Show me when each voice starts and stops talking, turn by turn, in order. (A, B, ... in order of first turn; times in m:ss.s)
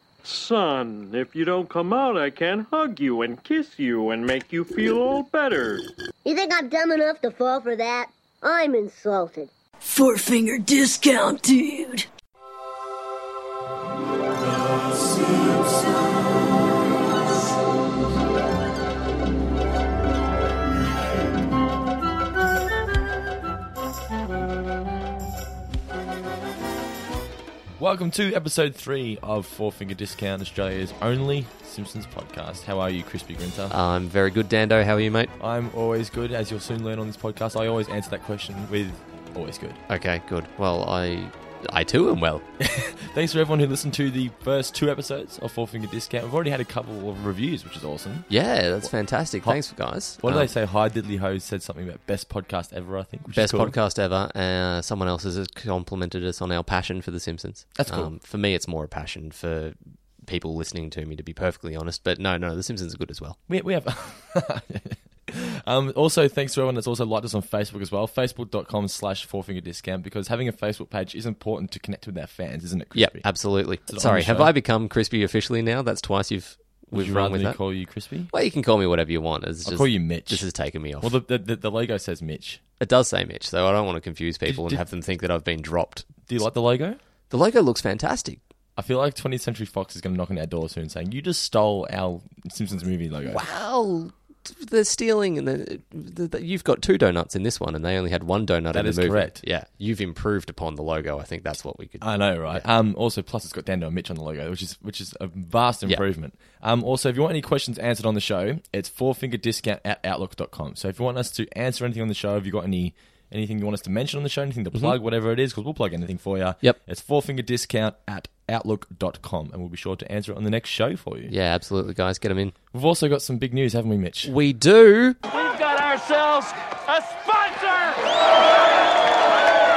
0:00.2-0:05.8 A
0:06.2-0:09.5 B
0:09.8-0:12.1 C
0:27.8-0:33.8 D
0:33.7-0:35.3 E
0:35.4-0:39.8 D
0:39.9-0:42.4 E
0:42.6-0:48.3 D
0:48.3-0:50.5 E
0:50.2-0:53.8 D
0:53.3-1:03.4 E
0:57.8-0:58.1 D
1:03.5-1:13.2 D
1:13.0-1:17.6 E
1:13.9-1:14.5 D
1:16.9-1:18.3 D
1:18.3-1:21.2 E
1:19.6-1:20.4 D
1:21.0-1:22.6 D
1:22.8-1:26.1 E
1:24.5-1:24.8 D
1:26.3-1:27.0 D
1:27.3-1:28.4 E
1:28.8-1:33.4 D
1:33.3-1:42.6 E
1:38.7-1:39.4 D
1:42.0-2:01.3 D
2:01.3-2:02.6 E
2:02.7-2:04.3 D
2:04.2-2:05.2 E
2:05.3-2:08.2 A